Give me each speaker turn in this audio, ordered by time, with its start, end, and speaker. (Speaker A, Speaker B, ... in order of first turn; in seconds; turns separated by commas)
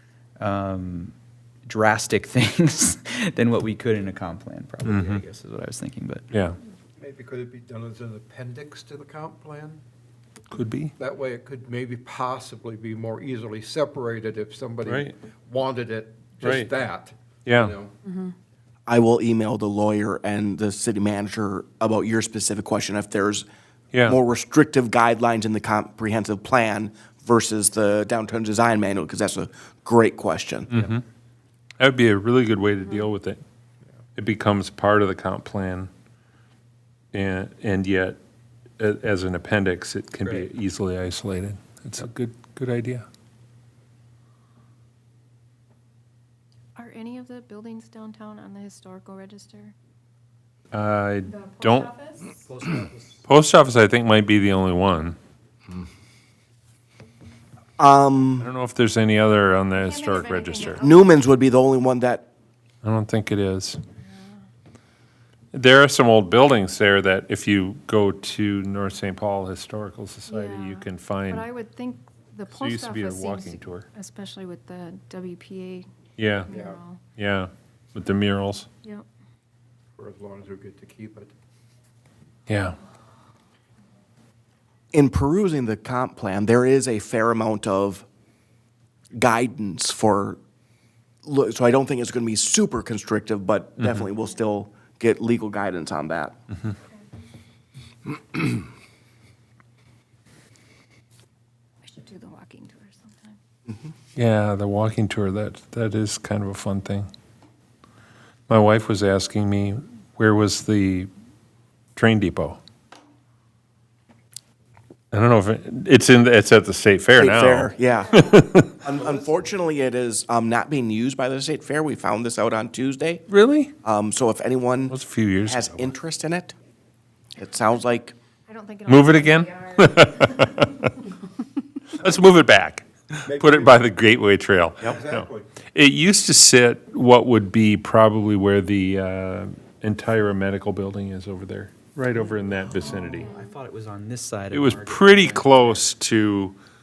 Speaker A: 0.4-1.1, Speaker A: 1.6-6.2, Speaker B: 4.8-5.2, Speaker B: 6.3-6.6, Speaker C: 7.0-9.8, Speaker B: 10.5-10.9, Speaker C: 11.0-17.9, Speaker B: 14.8-15.1, Speaker B: 16.4-16.7, Speaker B: 17.4-17.7, Speaker D: 18.0-18.3, Speaker E: 18.9-23.4, Speaker E: 24.1-30.7, Speaker B: 30.7-31.0, Speaker B: 31.8-33.4, Speaker B: 34.1-35.9, Speaker B: 37.1-38.2, Speaker B: 38.8-43.0, Speaker D: 46.8-49.7, Speaker B: 50.7-51.9, Speaker D: 51.3-52.4, Speaker A: 52.4-53.2, Speaker B: 53.2-55.2, Speaker E: 57.8-58.5, Speaker B: 58.4-60.8, Speaker D: 59.8-61.2, Speaker E: 60.8-62.3, Speaker B: 62.8-63.8, Speaker D: 64.0-64.4, Speaker B: 65.5-71.5, Speaker D: 70.3-75.9, Speaker B: 72.5-73.9, Speaker B: 76.2-76.5, Speaker D: 76.5-77.0, Speaker C: 76.5-76.8, Speaker B: 77.2-78.7, Speaker C: 80.0-81.3, Speaker B: 82.5-82.8, Speaker E: 84.9-88.0, Speaker E: 89.1-90.4, Speaker E: 91.2-96.3, Speaker D: 101.8-103.4, Speaker B: 104.1-107.1, Speaker B: 108.5-111.1, Speaker B: 112.0-112.6, Speaker B: 115.1-118.8, Speaker E: 117.2-118.2, Speaker E: 118.8-123.2, Speaker C: 118.9-119.4, Speaker B: 123.3-123.7, Speaker E: 123.8-124.9, Speaker B: 124.9-125.9, Speaker E: 125.5-126.5, Speaker E: 127.3-128.1, Speaker D: 128.4-130.6, Speaker B: 128.8-131.0, Speaker B: 131.9-143.3, Speaker C: 133.2-133.8, Speaker C: 134.9-135.5, Speaker A: 142.8-145.8, Speaker D: 143.2-143.5, Speaker B: 144.5-146.6